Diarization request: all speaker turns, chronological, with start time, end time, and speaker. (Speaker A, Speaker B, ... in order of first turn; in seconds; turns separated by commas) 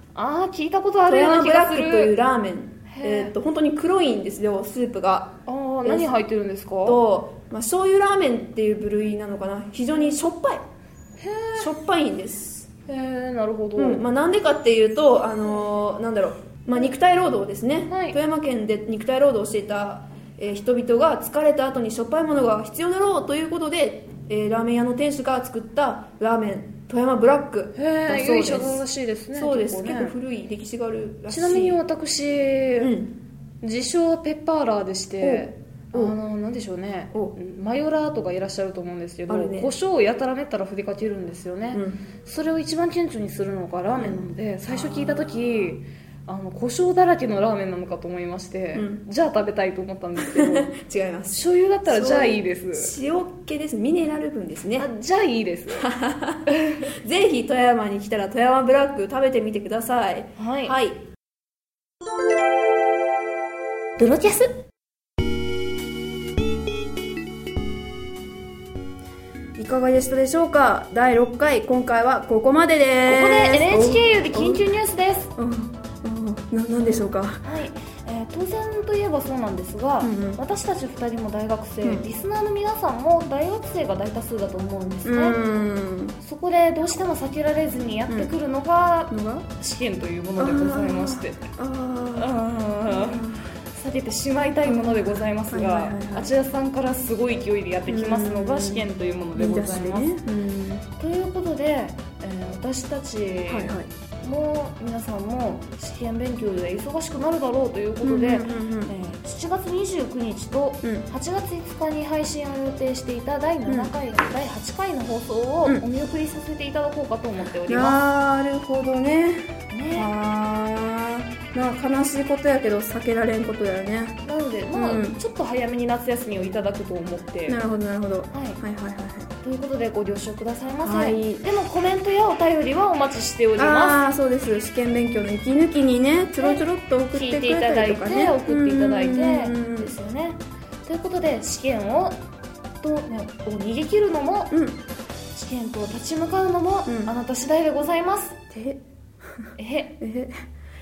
Speaker A: 0.1-2.1, Speaker B: 1.1-6.1, Speaker A: 2.9-3.3, Speaker A: 5.5-7.0, Speaker B: 6.8-10.6, Speaker A: 11.2-11.7, Speaker B: 11.6-12.7, Speaker A: 12.9-14.0, Speaker B: 13.8-31.8, Speaker A: 17.9-18.2, Speaker A: 27.7-30.1, Speaker A: 31.3-32.9, Speaker B: 32.8-33.1, Speaker A: 33.6-50.7, Speaker B: 35.2-36.1, Speaker B: 39.3-39.7, Speaker B: 41.7-42.0, Speaker B: 43.9-45.2, Speaker B: 48.7-49.0, Speaker B: 50.2-54.9, Speaker A: 51.3-52.9, Speaker A: 54.8-55.9, Speaker B: 55.7-61.0, Speaker A: 56.5-56.9, Speaker A: 60.4-60.7, Speaker A: 64.0-64.5, Speaker B: 69.6-74.7, Speaker A: 73.0-75.3, Speaker B: 75.4-77.4, Speaker A: 77.4-85.5, Speaker B: 80.0-80.4, Speaker B: 81.8-82.1, Speaker B: 85.0-86.2, Speaker A: 86.2-91.4, Speaker B: 89.1-89.5, Speaker B: 90.4-93.5, Speaker A: 92.2-93.2, Speaker A: 93.7-100.1, Speaker B: 94.6-96.3, Speaker B: 97.9-100.8, Speaker A: 101.0-118.0, Speaker B: 103.5-103.9, Speaker B: 108.0-108.9, Speaker B: 110.8-111.1, Speaker B: 113.7-113.9, Speaker B: 117.7-124.2, Speaker A: 119.7-120.1, Speaker A: 124.2-127.6, Speaker B: 124.7-125.2, Speaker B: 127.5-129.3, Speaker A: 128.3-128.6, Speaker A: 129.4-134.0, Speaker B: 130.8-131.4, Speaker B: 133.6-139.9, Speaker A: 136.4-142.2, Speaker A: 142.8-144.5, Speaker B: 144.5-144.8, Speaker A: 145.3-148.3, Speaker B: 146.8-147.1, Speaker B: 148.5-148.8, Speaker A: 149.6-149.9, Speaker B: 150.0-150.3